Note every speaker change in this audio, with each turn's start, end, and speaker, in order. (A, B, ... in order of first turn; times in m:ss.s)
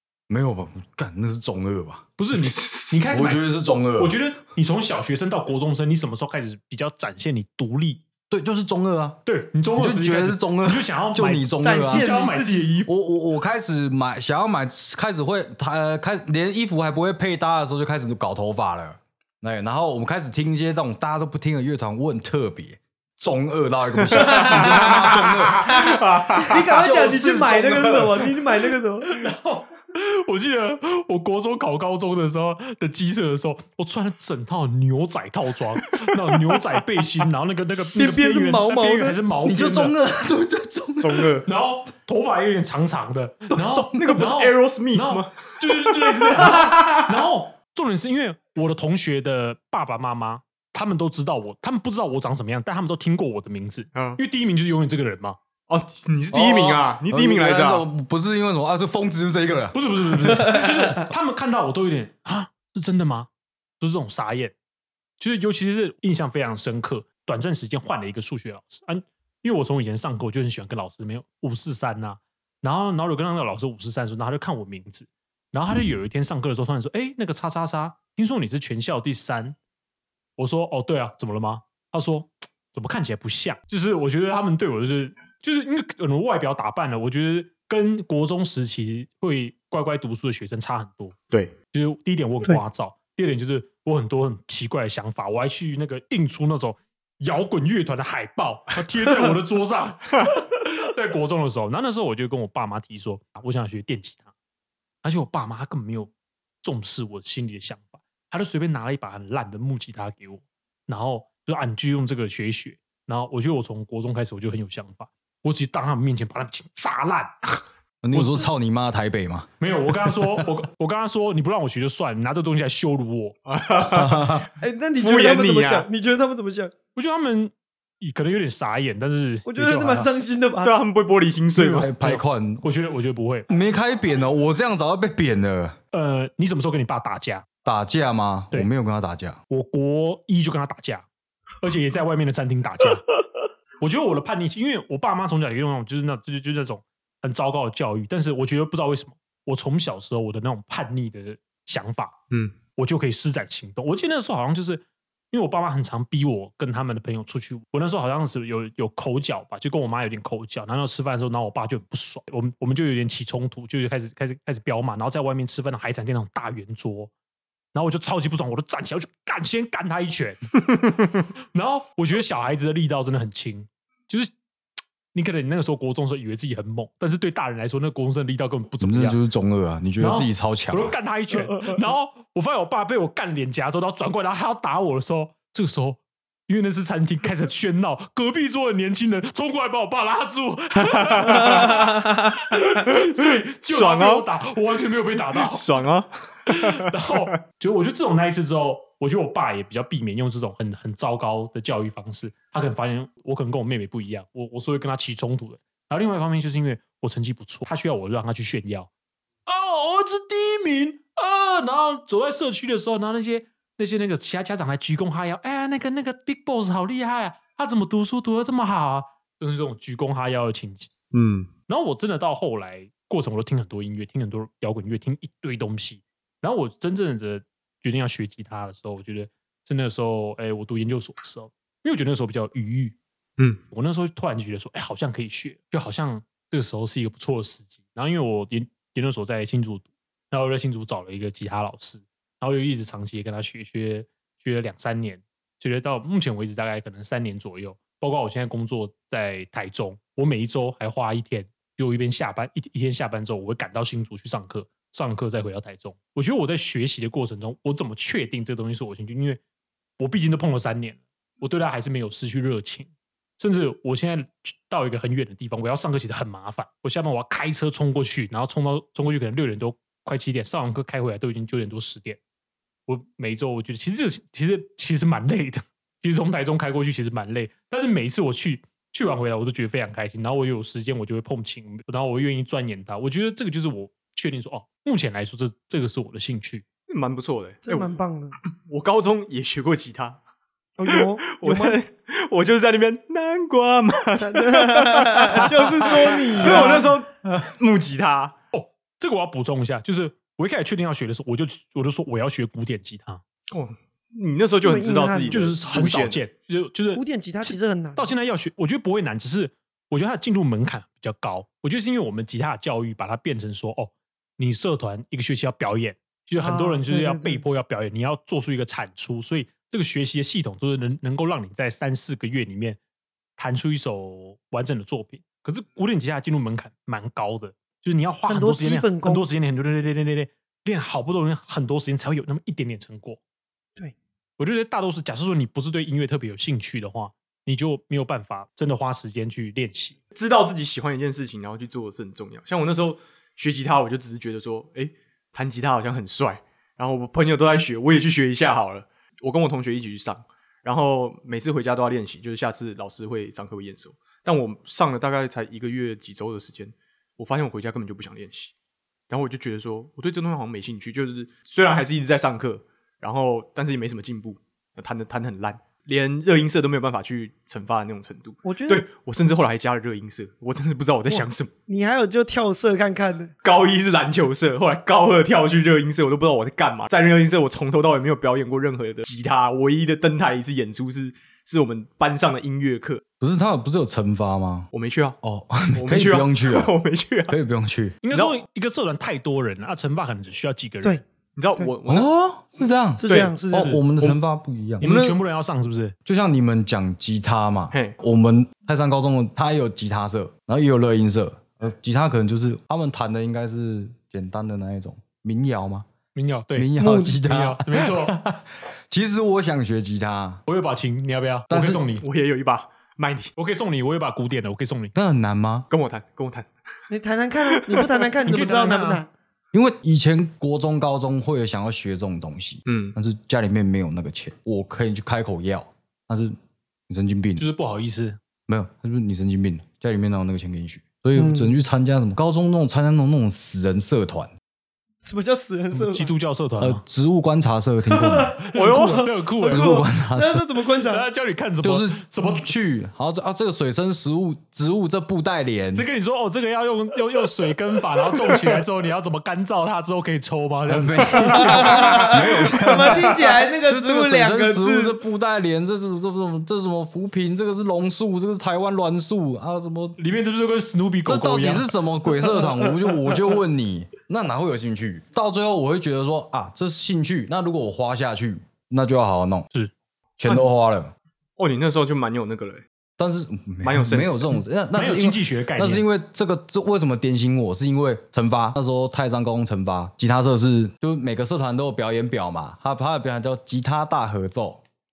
0:00.3-0:02.1 A
0:02.2-0:08.0 B
0:02.4-0:02.9 C
0:03.0-0:04.2 A
0:08.3-0:09.2 A
0:09.2-0:12.9 B
0:09.8-0:12.1 A
0:11.6-0:12.7 D
0:12.8-0:25.9 A
0:24.0-0:26.7 C
0:24.1-0:29.3 D
0:26.6-0:28.2 A
0:29.1-0:39.9 B
0:38.0-0:39.2 D
0:39.4-0:41.4 A
0:41.0-0:41.4 C
0:41.4-0:55.4 B
0:43.5-0:44.2 A
0:43.9-0:47.0 C
0:53.9-0:54.2 C
0:55.7-0:57.8 C
0:56.3-1:00.7 A
0:59.7-1:03.3 B
1:03.8-1:04.5 B
1:05.2-1:19.6 B
1:20.4-1:31.2 B
1:31.7-1:44.3 B
1:45.0-1:46.1 B
1:46.6-1:58.5 B
1:58.0-1:59.5 A
1:59.6-2:03.4 B
2:03.4-2:04.4 C
2:03.8-2:04.5 A
2:04.6-2:06.7 D
2:05.0-2:05.9 C
2:06.9-2:10.1 B
2:09.4-2:10.7 D
2:10.6-2:11.9 C
2:11.5-2:13.5 B
2:11.8-2:12.6 A
2:13.5-2:15.8 A
2:15.9-2:17.4 B
2:17.6-2:19.4 A
2:19.5-2:21.0 B
2:21.6-2:23.0 B
2:23.8-2:32.2 B
2:32.8-2:47.1 B
2:47.7-2:50.5 B
2:51.5-2:54.3 B
2:55.1-2:59.2 B
2:58.8-3:00.9 A
3:00.0-3:15.7 B
3:10.9-3:11.8 C
3:12.8-3:14.2 C
3:15.5-3:16.9 C
3:16.5-3:28.9 B
3:29.4-3:40.9 B
3:41.1-3:41.5 C
3:41.7-3:53.0 B
3:53.7-4:19.4 B
4:20.0-4:32.2 B
4:32.9-4:46.6 B
4:46.9-4:47.9 C
4:47.6-4:48.4 D
4:48.5-4:50.2 C
4:50.8-4:51.8 D
4:50.9-4:58.4 C
4:54.2-4:57.0 D
4:58.5-5:03.2 B
5:03.5-5:06.2 C
5:04.6-5:05.4 D
5:05.3-5:22.8 B
5:06.9-5:08.1 D
5:16.4-5:17.4 D
5:23.4-5:33.2 B
5:28.3-5:29.2 D
5:34.4-5:40.0 B
5:40.1-5:58.5 C
5:59.1-6:11.5 C
6:08.4-6:08.8 D
6:11.1-6:13.3 D
6:13.4-6:23.0 C
6:23.2-6:24.7 A
6:24.7-6:25.2 C
6:25.2-6:26.7 A
6:25.7-6:27.3 C
6:27.3-6:28.0 A
6:28.0-6:31.0 B
6:28.1-6:28.4 C
6:31.4-6:32.1 C
6:31.9-6:34.9 A
6:33.0-6:33.8 D
6:33.0-6:33.4 C
6:34.8-6:35.2 C
6:34.8-6:35.9 B
6:36.0-6:45.9 A
6:37.7-6:38.0 C
6:46.1-6:46.7 B
6:46.5-6:50.4 A
6:46.8-6:47.2 D
6:47.2-6:48.2 B
6:50.5-6:52.0 B
6:51.5-6:51.9 A
6:52.0-6:53.3 C
6:53.4-6:54.9 B
6:54.9-6:55.7 A
6:55.7-6:56.5 C
6:56.9-6:59.1 D
6:57.6-6:58.1 C
6:58.2-6:59.0 B
6:59.5-7:06.3 A
7:02.7-7:02.9 C
7:06.9-7:07.4 A
7:07.4-7:08.2 B
7:08.5-7:14.3 A
7:11.2-7:11.5 D
7:15.0-7:16.1 D
7:15.7-7:16.8 B
7:16.6-7:18.4 A
7:17.9-7:21.0 D
7:18.5-7:19.8 B
7:18.5-7:19.1 C
7:19.5-7:20.4 A
7:20.8-7:22.7 B
7:21.6-7:25.9 A
7:25.7-7:32.1 B
7:30.7-7:40.0 A
7:31.1-7:35.0 D
7:32.8-7:33.1 C
7:40.0-7:41.7 B
7:41.0-7:49.5 A
7:50.2-7:50.9 A
7:51.4-7:52.6 C
7:53.0-8:04.6 A
7:53.6-7:54.4 C
7:54.7-7:55.8 B